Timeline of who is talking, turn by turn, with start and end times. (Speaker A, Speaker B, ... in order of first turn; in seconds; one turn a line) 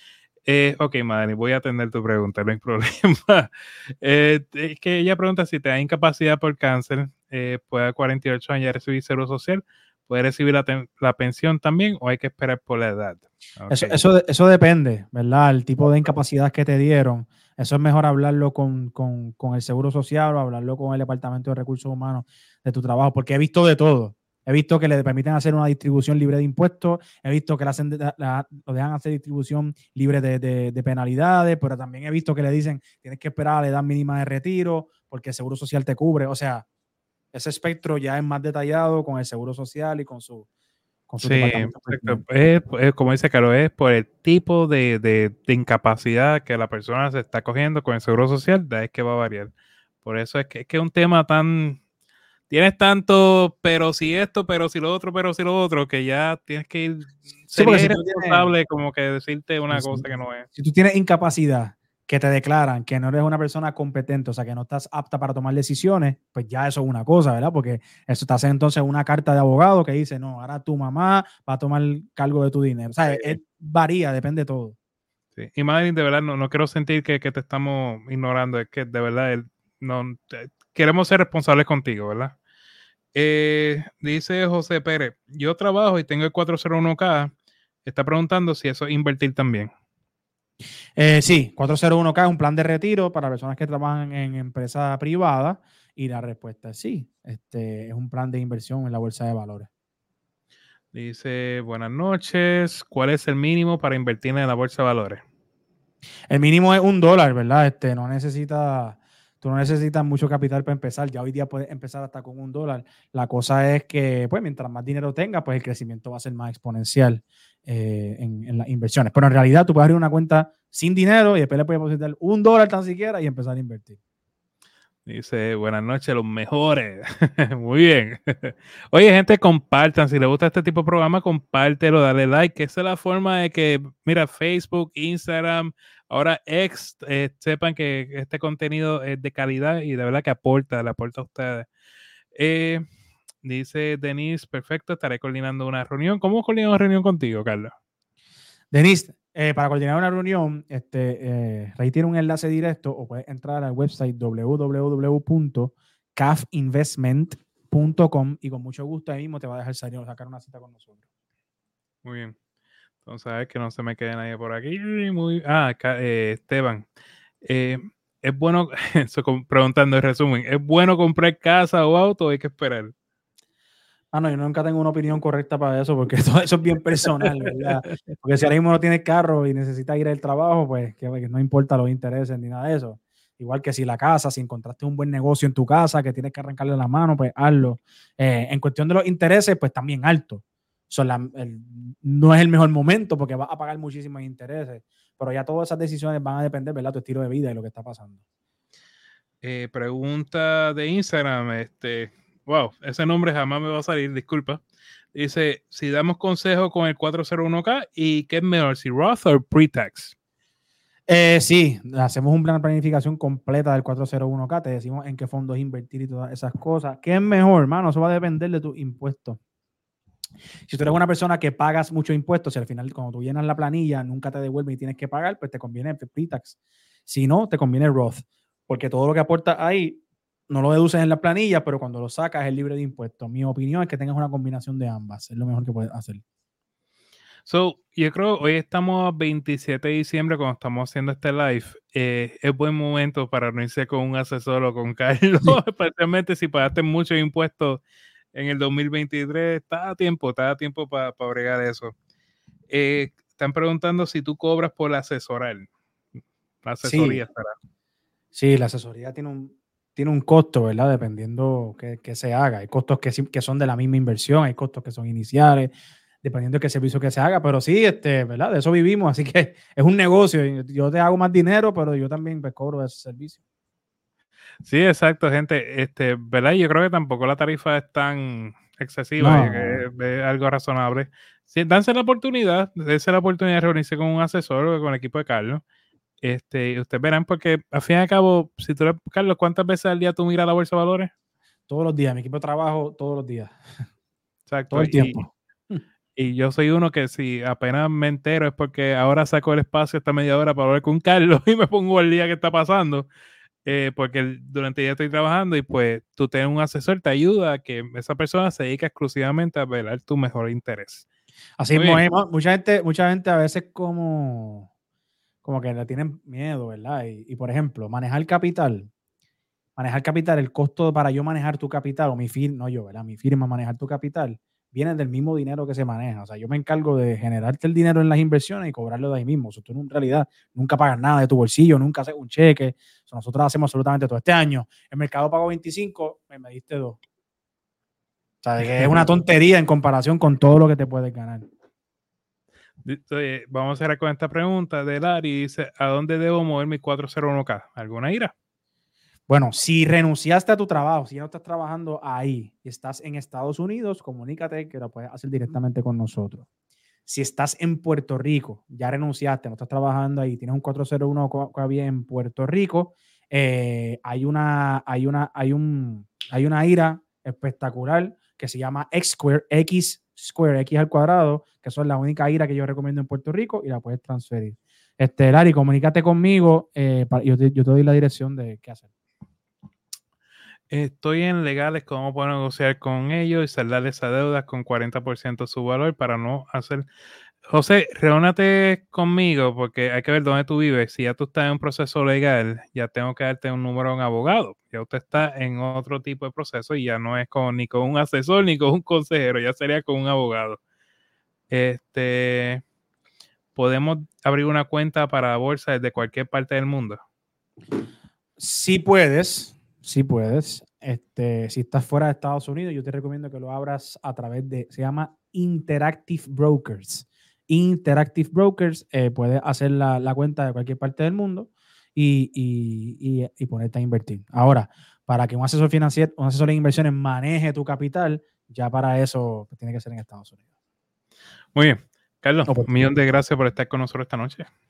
Speaker A: 0.4-14.0
Speaker B: 13.7-36.6
Speaker B: 37.3-40.5
Speaker B: 41.1-42.2
Speaker A: 41.2-49.5
Speaker A: 50.0-51.8
Speaker A: 52.5-60.5
Speaker B: 57.5-58.5
Speaker B: 59.7-74.8
Speaker A: 73.1-73.4
Speaker A: 75.3-82.3
Speaker A: 83.1-87.3
Speaker A: 87.8-89.7
Speaker B: 91.0-99.7
Speaker A: 100.9-105.2
Speaker B: 106.3-124.0
Speaker A: 125.0-141.7
Speaker A: 142.3-142.8
Speaker A: 143.4-147.7
Speaker B: 148.7-161.0
Speaker A: 162.0-162.3
Speaker A: 163.0-166.8
Speaker A: 167.4-172.9
Speaker B: 174.1-198.2
Speaker A: 177.6-177.9
Speaker A: 199.4-204.6
Speaker A: 205.1-210.1
Speaker B: 211.1-219.4
Speaker B: 220.7-226.6
Speaker B: 227.1-236.2
Speaker A: 237.4-247.8
Speaker A: 248.3-251.9
Speaker A: 252.7-255.7
Speaker A: 256.6-257.5
Speaker B: 256.8-257.2
Speaker B: 258.3-273.4
Speaker A: 274.6-285.6
Speaker B: 279.2-279.8
Speaker A: 286.2-291.1
Speaker B: 291.7-293.6
Speaker A: 294.5-295.2
Speaker B: 294.7-295.8
Speaker A: 296.1-303.1
Speaker A: 303.6-311.1
Speaker B: 311.6-314.7
Speaker A: 311.7-312.0
Speaker B: 315.4-318.9
Speaker B: 319.8-337.0
Speaker B: 338.4-341.5
Speaker A: 342.8-348.3
Speaker B: 349.3-356.4
Speaker B: 357.1-378.9
Speaker A: 380.7-386.9
Speaker A: 387.5-400.6
Speaker A: 401.5-402.6
Speaker A: 403.5-407.0
Speaker B: 408.4-430.4
Speaker A: 431.5-434.5
Speaker B: 432.4-432.8